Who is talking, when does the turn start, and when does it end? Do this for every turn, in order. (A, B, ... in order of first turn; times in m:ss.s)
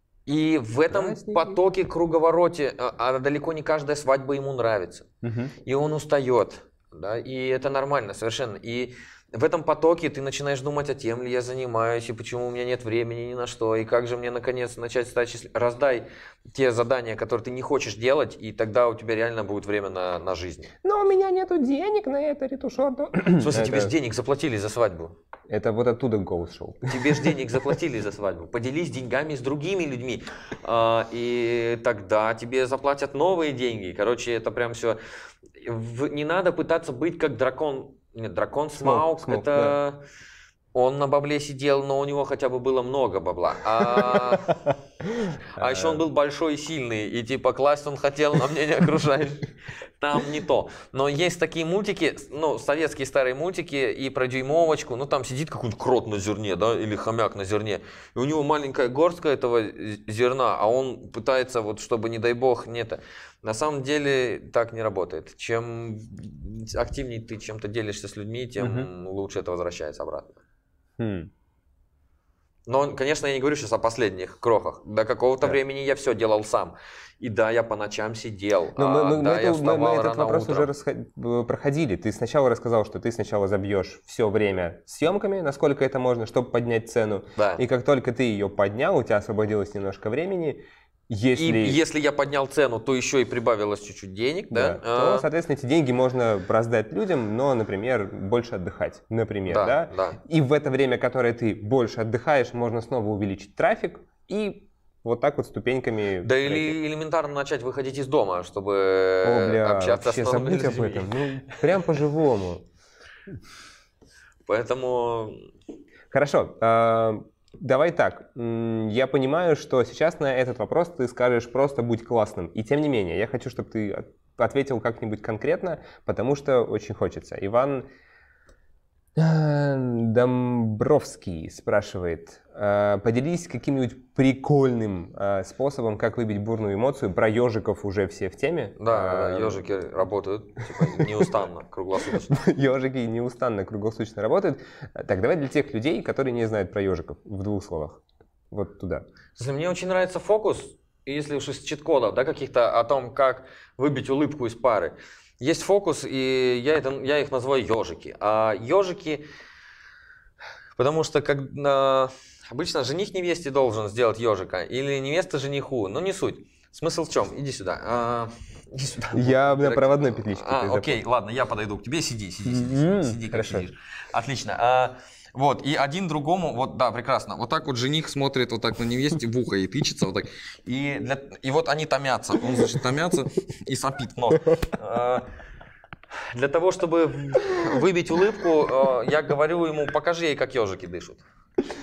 0:00.2-0:05.1 A
0:00.9-0:01.6 B
0:05.2-0:05.5 B
0:05.6-0:20.7 A
0:20.8-0:23.9 B
0:23.4-0:25.2 A
0:25.5-0:27.8 B
0:26.9-0:35.0 A
0:35.6-0:40.0 A
0:38.8-0:39.8 B
0:40.7-0:44.6 A
0:43.8-0:46.0 B
0:45.6-1:10.4 A
1:08.6-1:08.9 B
1:11.0-1:11.3 B
1:12.7-1:20.7 A
1:18.8-1:31.8 B
1:27.4-1:27.6 A
1:31.3-1:35.3 A
1:34.5-1:46.8 B
1:39.5-1:40.2 A
1:46.2-1:51.6 A
1:49.2-1:52.6 B
1:54.5-1:55.5 A
1:56.1-2:07.9 B
2:09.2-2:19.6 B
2:18.8-2:22.4 A
2:20.6-2:21.3 B
2:22.1-2:29.0 B
2:29.4-2:39.2 A
2:40.8-3:05.3 A
2:49.1-2:51.0 B
2:52.4-2:53.7 B
3:06.2-3:11.2 A